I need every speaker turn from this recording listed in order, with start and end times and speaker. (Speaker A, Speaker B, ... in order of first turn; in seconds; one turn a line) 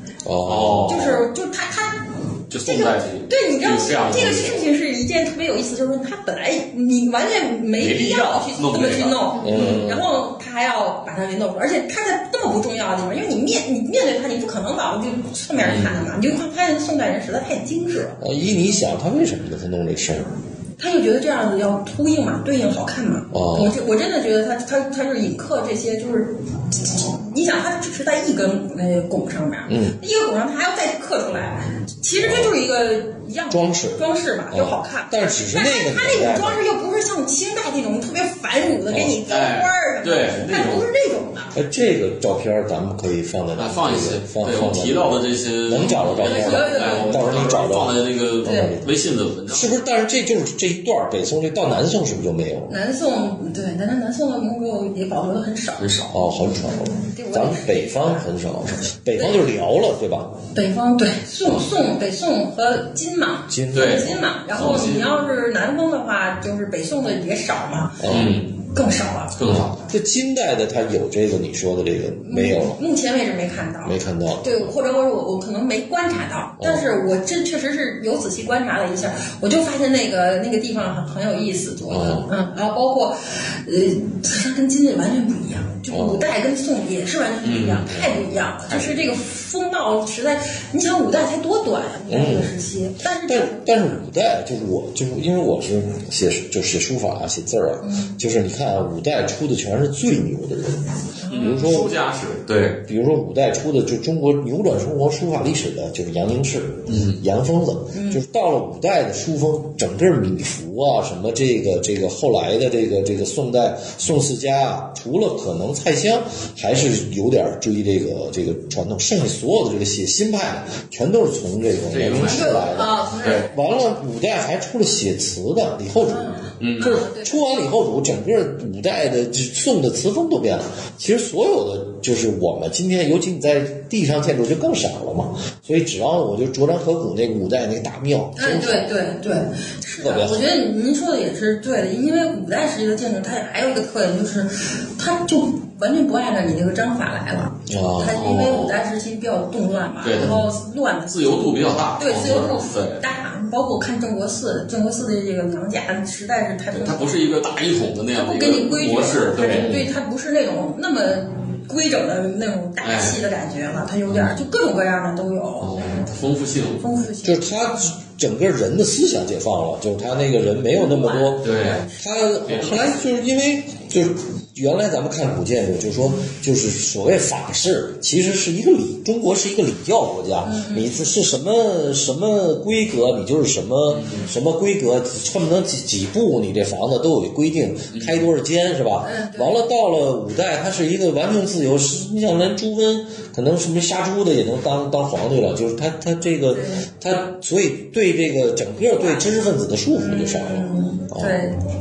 Speaker A: 0.2-1.1
Speaker B: 0.4-1.2
Speaker C: 0.8-2.0
Speaker B: 2.5-4.6
Speaker C: 2.6-18.2
Speaker B: 7.8-9.8
Speaker A: 9.4-10.1
Speaker B: 15.6-16.1
Speaker A: 18.2-20.3
Speaker C: 20.8-41.5
Speaker A: 23.3-23.8
Speaker A: 29.7-29.9
Speaker A: 32.2-32.5
Speaker A: 33.5-36.6
Speaker B: 39.2-40.9
Speaker A: 41.5-48.9
Speaker B: 43.6-49.7
Speaker C: 45.8-47.7
Speaker C: 48.4-48.8
Speaker A: 49.5-52.7
Speaker C: 52.7-55.9
Speaker B: 55.8-56.2
Speaker A: 56.1-60.4
Speaker C: 56.5-58.3
Speaker C: 59.1-59.5
Speaker C: 60.5-69.4
Speaker A: 63.5-64.8
Speaker B: 63.7-65.3
Speaker A: 68.0-68.4
Speaker B: 68.1-68.5
Speaker B: 69.3-69.7
Speaker A: 69.5-72.8
Speaker C: 72.2-94.1
Speaker A: 73.8-74.7
Speaker A: 76.6-76.9
Speaker A: 81.9-82.3
Speaker A: 85.9-86.2
Speaker B: 87.4-88.0
Speaker B: 88.7-89.1
Speaker A: 92.1-92.5
Speaker A: 93.2-102.0
Speaker C: 97.8-98.2
Speaker C: 101.2-101.7
Speaker B: 101.3-102.8
Speaker A: 102.8-122.9
Speaker B: 106.9-107.2
Speaker C: 107.9-108.2
Speaker B: 121.9-122.7
Speaker C: 122.2-123.5
Speaker B: 123.2-123.5
Speaker A: 123.4-138.9
Speaker C: 126.0-127.4
Speaker B: 126.6-127.0
Speaker C: 138.3-157.2
Speaker A: 140.0-140.5
Speaker A: 147.7-148.2
Speaker B: 148.1-148.8
Speaker B: 150.0-150.4
Speaker A: 150.2-150.4
Speaker B: 151.1-153.0
Speaker B: 156.7-159.7
Speaker C: 158.1-166.1
Speaker A: 159.5-159.9
Speaker B: 162.8-163.2
Speaker B: 164.1-164.4
Speaker B: 165.6-166.8
Speaker C: 166.8-167.9
Speaker A: 167.2-201.4
Speaker C: 170.7-172.0
Speaker B: 171.4-171.8
Speaker B: 172.4-172.9
Speaker C: 180.4-181.1
Speaker B: 183.9-184.3
Speaker B: 187.9-188.3
Speaker C: 189.0-189.6
Speaker C: 196.5-196.8
Speaker C: 198.9-199.3
Speaker C: 199.9-201.5